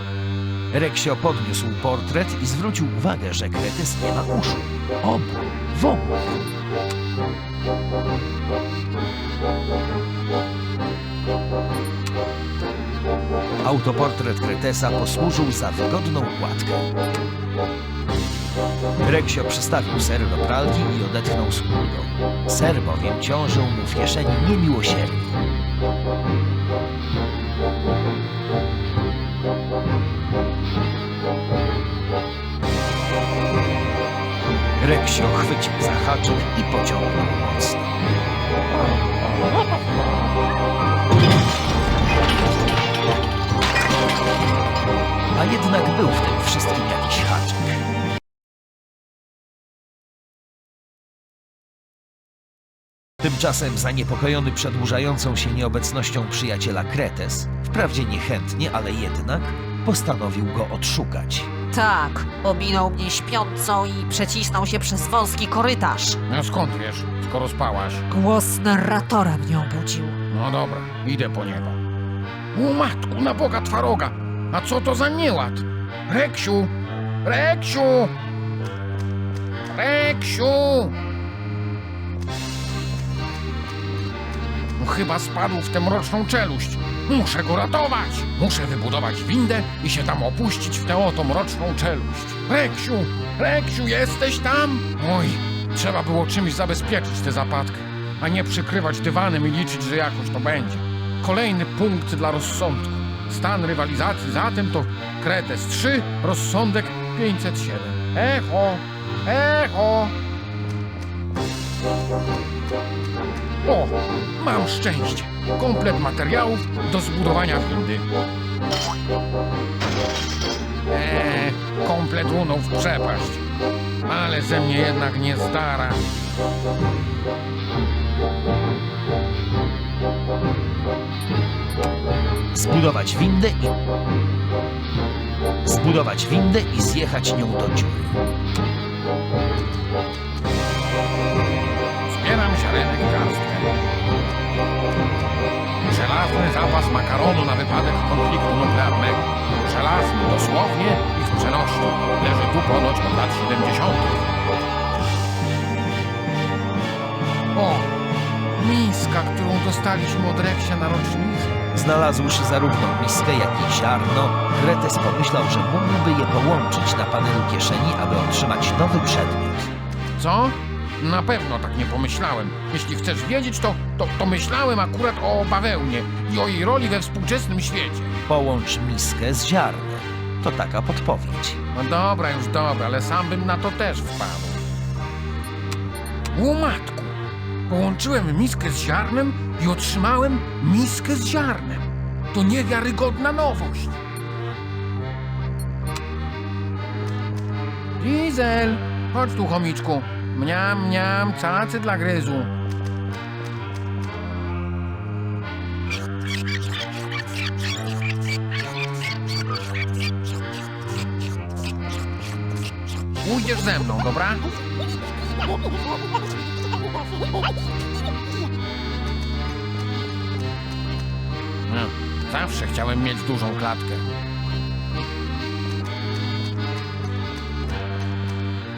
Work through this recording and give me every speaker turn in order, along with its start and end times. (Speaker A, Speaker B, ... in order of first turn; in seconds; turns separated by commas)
Speaker A: 0.7-6.5, Speaker A: 13.6-16.9, Speaker A: 19.0-25.4, Speaker A: 34.8-37.9, Speaker A: 45.4-47.8, Speaker A: 53.2-61.5, Speaker B: 61.7-66.2, Speaker C: 66.3-68.1, Speaker B: 68.1-70.2, Speaker C: 70.3-71.8, Speaker C: 72.5-78.1, Speaker C: 79.7-81.0, Speaker C: 84.8-110.1, Speaker C: 113.6-118.0, Speaker C: 120.9-123.4, Speaker C: 124.0-126.0, Speaker A: 132.5-133.8, Speaker A: 135.7-138.2, Speaker C: 142.1-143.8, Speaker C: 145.9-154.3, Speaker C: 157.5-157.9, Speaker C: 158.6-161.6, Speaker A: 161.7-169.7, Speaker C: 170.2-178.1, Speaker A: 178.3-181.6, Speaker C: 181.7-184.6, Speaker C: 186.3-187.2, Speaker C: 187.7-194.0, Speaker C: 198.0-202.5, Speaker C: 213.2-214.5, Speaker C: 221.7-224.1